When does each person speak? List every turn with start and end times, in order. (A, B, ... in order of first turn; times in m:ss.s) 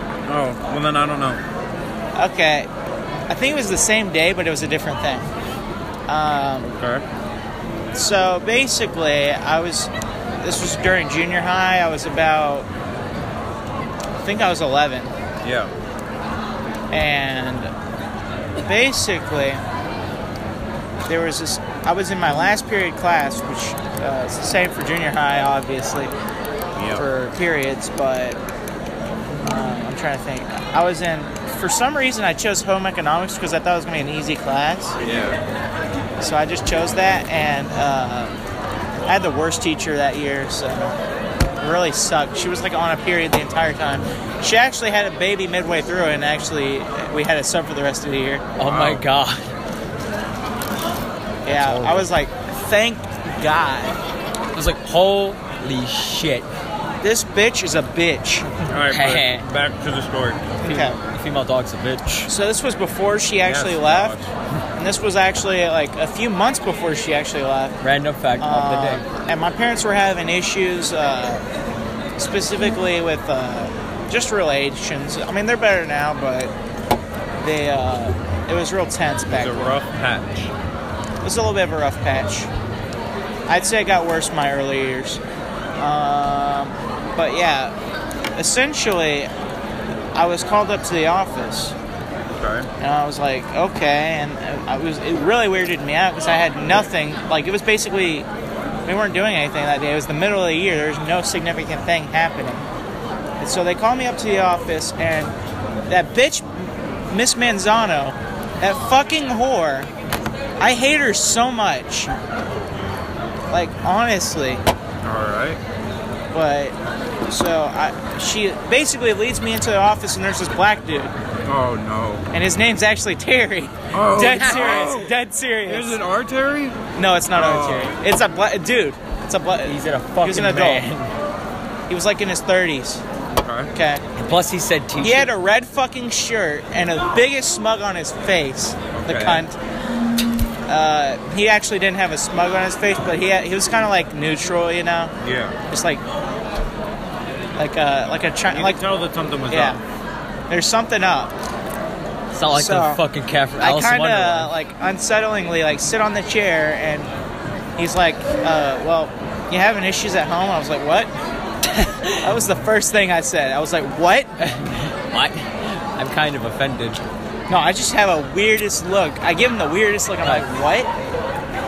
0:00.3-0:01.4 A
0:02.2-0:02.7 B
0:03.3-0:05.3 B
0:06.1-0:06.7 B
0:06.7-0:07.0 A
0:07.9-0:12.7 B
0:14.2-0:15.1 B
0:15.4-0:15.7 A
0:16.9-0:17.7 B
0:18.6-0:19.6 B
0:21.0-0:26.1 B
0:26.8-0:27.0 A
0:27.0-0:28.4 B
0:29.4-0:35.0 B
0:35.0-0:35.4 A
0:36.2-0:38.4 B
0:39.1-0:41.0 B
0:41.6-0:48.5 B
0:48.6-0:49.5 C
0:48.6-0:49.0 A
0:51.5-0:54.0 B
0:51.5-0:52.1 C
0:54.6-0:56.5 C
0:57.0-0:58.5 B
0:58.7-1:00.5 A
0:58.8-0:59.5 C
1:00.6-1:01.0 B
1:00.6-1:02.3 C
1:02.2-1:04.2 B
1:03.4-1:04.3 A
1:04.8-1:07.8 B
1:07.8-1:09.0 C
1:08.4-1:11.4 B
1:12.2-1:16.5 B
1:17.4-1:19.8 B
1:19.3-1:20.5 A
1:21.2-1:22.5 B
1:23.5-1:25.2 B
1:25.8-1:27.7 B
1:28.4-1:29.3 B
1:30.1-1:31.8 B
1:32.4-1:32.7 A
1:32.8-1:38.3 B
1:38.9-1:42.6 B
1:43.4-1:45.4 B
1:45.9-1:49.9 B
1:50.6-1:52.2 B
1:53.5-1:54.6 B
1:55.0-1:55.6 A
1:56.3-1:56.8 B
1:57.3-2:01.1 B
2:01.4-2:02.3 A
2:02.3-2:06.0 B
2:03.9-2:06.8 A
2:07.0-2:10.9 B
2:07.3-2:08.0 A
2:09.6-2:11.1 C
2:11.9-2:13.0 B
2:13.4-2:13.7 A
2:13.7-2:14.0 B
2:14.2-2:15.3 C
2:15.0-2:19.6 B
2:19.0-2:19.4 A
2:20.7-2:25.1 B
2:25.2-2:25.6 A
2:25.7-2:26.0 B
2:27.6-2:28.8 B
2:28.5-2:29.8 A
2:29.5-2:29.8 B
2:30.5-2:31.3 B
2:32.3-2:34.5 C
2:32.5-2:33.0 B
2:33.6-2:37.1 B
2:37.8-2:41.1 B
2:41.7-2:42.2 C
2:42.2-2:44.3 B
2:44.4-2:47.0 C
2:47.5-2:50.9 B
2:50.2-2:50.5 C